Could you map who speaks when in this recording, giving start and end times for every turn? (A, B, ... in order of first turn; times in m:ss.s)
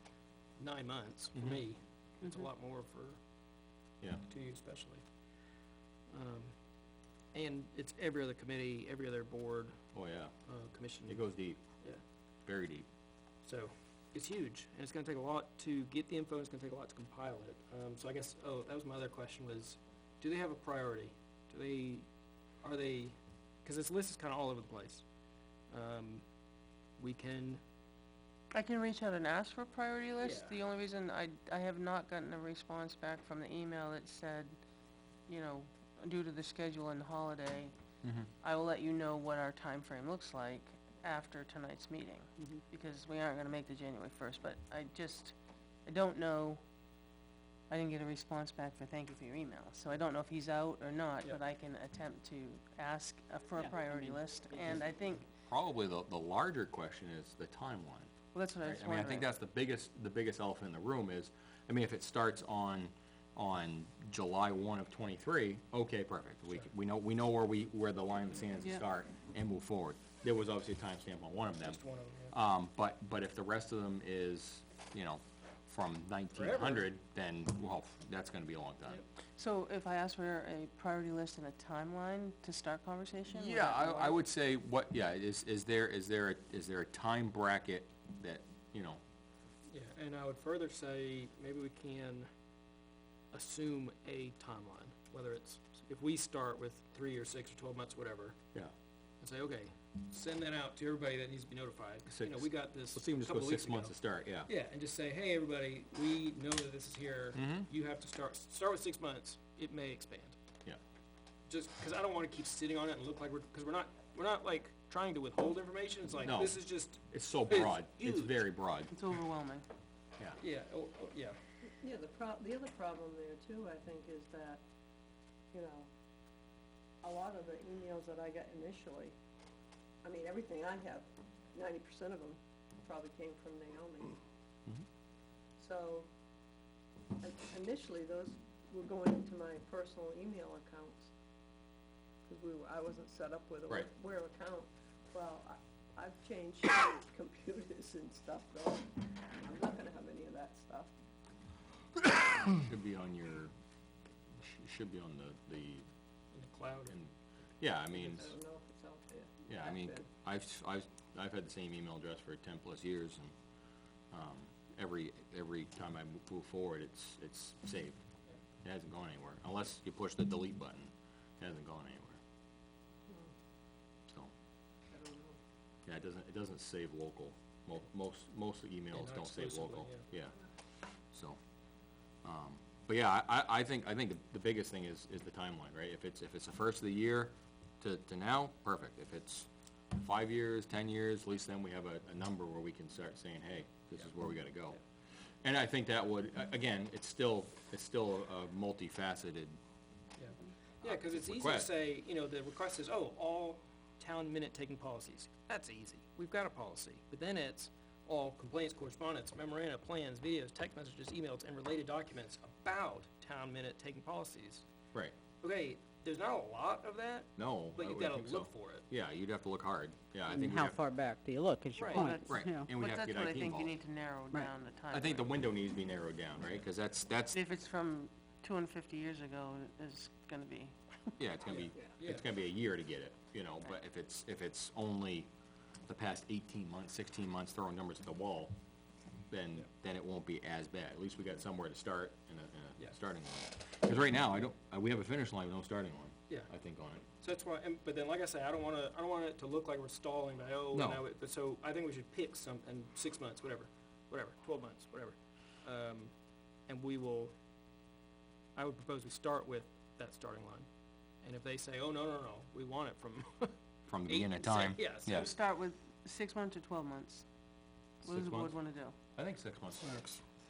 0:00.6-0:03.2 A
0:04.3-0:05.0 A
0:06.1-0:06.6 A
0:07.3-0:09.8 A
0:09.9-0:10.3 B
0:10.5-0:11.3 A
0:11.0-0:11.6 B
0:12.4-0:12.9 B
0:13.4-0:22.1 A
0:22.6-0:25.0 A
0:25.7-0:26.3 A
0:27.0-0:27.6 A
0:28.5-0:34.6 C
0:30.2-0:30.6 A
0:35.3-0:37.7 C
0:38.0-0:38.3 B
0:38.4-0:45.3 C
0:45.8-0:46.6 C
0:47.7-0:55.3 C
0:53.7-0:54.8 D
0:55.5-1:19.0 B
0:58.3-0:59.2 C
1:11.6-1:12.3 A
1:16.3-1:16.9 A
1:19.4-1:24.2 C
1:23.3-1:29.0 B
1:29.7-1:32.3 A
1:33.3-1:38.4 A
1:39.2-1:43.9 A
1:42.1-1:44.5 B
1:44.4-1:50.4 A
1:47.3-1:47.7 B
1:51.5-1:58.3 A
1:56.2-1:58.9 B
1:58.9-1:59.7 C
2:00.4-2:01.4 A
2:01.8-2:04.6 E
2:05.5-2:05.9 E
2:07.0-2:09.1 E
2:10.0-2:14.2 E
2:15.6-2:16.1 E
2:17.2-2:21.1 E
2:22.3-2:30.9 E
2:32.5-2:33.5 B
2:34.4-2:35.9 B
2:36.3-2:37.0 A
2:36.9-2:38.3 B
2:37.9-2:40.0 E
2:39.5-2:43.3 B
2:44.1-2:48.0 B
2:48.6-2:52.2 B
2:54.9-2:55.4 E
2:55.8-3:00.4 B
2:58.9-3:00.1 A
3:01.1-3:01.4 B
3:02.2-3:14.8 B
3:15.4-3:19.6 B
3:20.2-3:34.6 A
3:20.8-3:21.7 B
3:35.4-3:38.9 A
3:37.4-3:40.8 B
3:40.3-3:42.7 D
3:41.8-3:42.2 A
3:41.9-3:43.7 B
3:42.7-3:45.3 C
3:44.9-3:47.4 B
3:47.3-3:51.2 C
3:51.2-3:55.3 B
3:51.5-3:52.2 A
3:55.9-3:58.5 B
3:59.3-4:07.1 B
4:07.1-4:16.1 A
4:10.7-4:11.0 B
4:16.7-4:17.3 A
4:18.6-4:20.7 A
4:21.2-4:23.6 A
4:23.9-4:25.3 B
4:24.1-4:25.3 A
4:25.1-4:27.2 C
4:28.0-4:29.0 C
4:28.0-4:28.6 B
4:29.1-4:29.9 B
4:29.8-4:30.2 A